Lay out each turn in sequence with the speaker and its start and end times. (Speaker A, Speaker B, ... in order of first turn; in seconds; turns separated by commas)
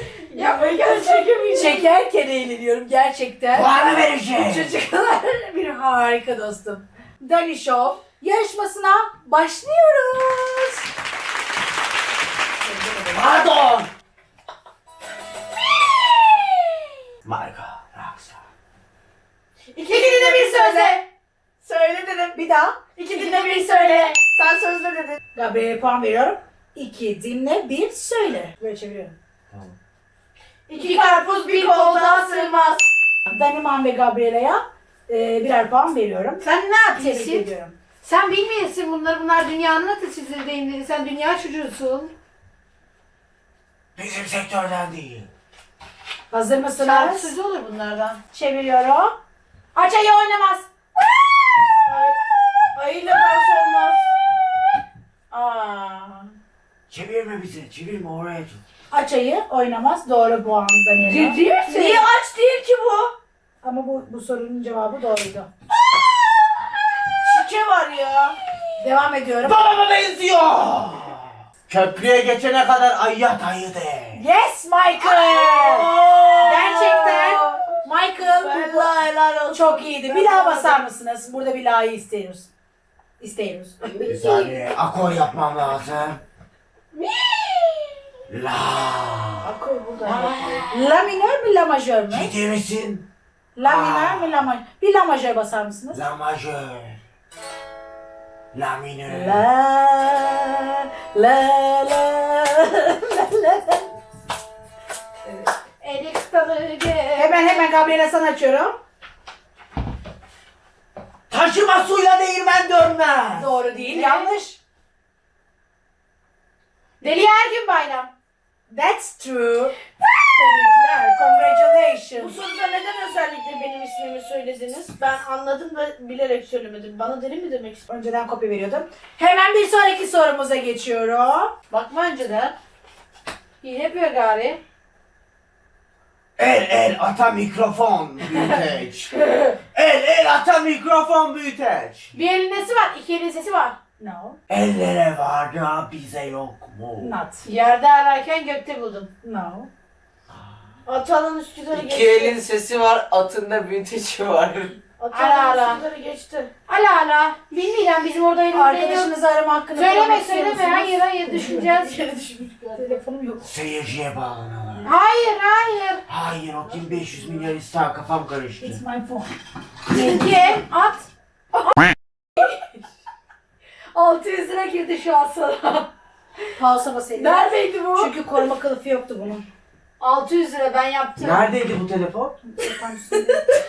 Speaker A: 0.3-1.8, Speaker B: 0.3-1.8, Speaker C: 1.5-3.8, Speaker D: 3.5-4.7, Speaker C: 4.4-10.8, Speaker D: 13.1-13.9, Speaker D: 17.2-18.4, Speaker A: 19.7-21.0, Speaker B: 19.8-21.0, Speaker A: 21.6-22.4, Speaker C: 22.3-22.8, Speaker A: 23.0-25.2, Speaker B: 23.1-24.2, Speaker C: 25.3-29.1, Speaker D: 29.5-29.7, Speaker A: 30.7-32.9, Speaker B: 30.7-32.6, Speaker C: 33.3-37.7, Speaker B: 36.4-37.5, Speaker B: 38.0-42.1, Speaker D: 44.0-45.3, Speaker C: 46.3-47.3, Speaker B: 46.8-48.2, Speaker C: 48.3-49.1, Speaker C: 49.7-50.6, Speaker A: 51.8-52.1, Speaker A: 52.7-54.1, Speaker A: 55.3-56.1, Speaker B: 55.4-56.0, Speaker D: 56.9-58.6, Speaker C: 58.9-61.4, Speaker B: 61.0-62.0, Speaker A: 61.6-63.1, Speaker C: 63.6-65.5, Speaker A: 67.2-68.4, Speaker C: 68.8-69.6, Speaker D: 69.4-74.2, Speaker C: 74.1-75.9, Speaker A: 75.0-77.6, Speaker B: 76.4-77.5, Speaker C: 77.8-78.9, Speaker A: 78.4-80.8, Speaker C: 79.5-82.5, Speaker C: 83.2-84.0, Speaker A: 84.0-84.5, Speaker D: 84.1-86.2, Speaker B: 87.0-87.6, Speaker D: 88.3-89.5, Speaker A: 89.4-90.7, Speaker B: 90.0-90.8, Speaker C: 90.7-92.3, Speaker D: 92.1-93.1, Speaker C: 93.5-96.0, Speaker D: 93.6-94.5, Speaker D: 95.9-97.0, Speaker D: 98.5-99.4, Speaker C: 99.1-103.9, Speaker B: 105.8-107.7, Speaker C: 107.2-108.8, Speaker D: 111.3-113.5, Speaker C: 113.3-114.6, Speaker B: 113.4-114.3, Speaker B: 117.0-118.1, Speaker C: 118.7-119.8, Speaker C: 120.3-122.3, Speaker A: 122.2-127.8, Speaker C: 127.9-131.5, Speaker B: 131.7-132.5, Speaker B: 133.6-134.6, Speaker D: 136.4-139.1, Speaker B: 139.2-139.6, Speaker D: 139.7-142.1, Speaker B: 142.1-143.8, Speaker C: 144.0-144.4, Speaker D: 144.5-147.1, Speaker C: 147.0-147.4, Speaker B: 147.4-149.1, Speaker C: 149.2-149.7, Speaker D: 150.3-150.6, Speaker A: 150.8-152.4, Speaker E: 151.7-154.8, Speaker A: 155.0-156.5, Speaker B: 155.1-155.8, Speaker B: 156.7-159.1, Speaker C: 158.5-161.7, Speaker B: 159.8-161.9, Speaker A: 161.4-163.0, Speaker C: 162.8-163.5, Speaker D: 163.4-164.9, Speaker B: 164.8-166.0, Speaker D: 166.1-168.8, Speaker A: 166.7-167.2, Speaker C: 168.6-169.3, Speaker B: 169.9-171.8, Speaker B: 173.9-175.9, Speaker C: 176.6-179.4, Speaker B: 177.2-178.1, Speaker B: 180.0-181.5, Speaker D: 181.2-182.4, Speaker C: 182.4-183.4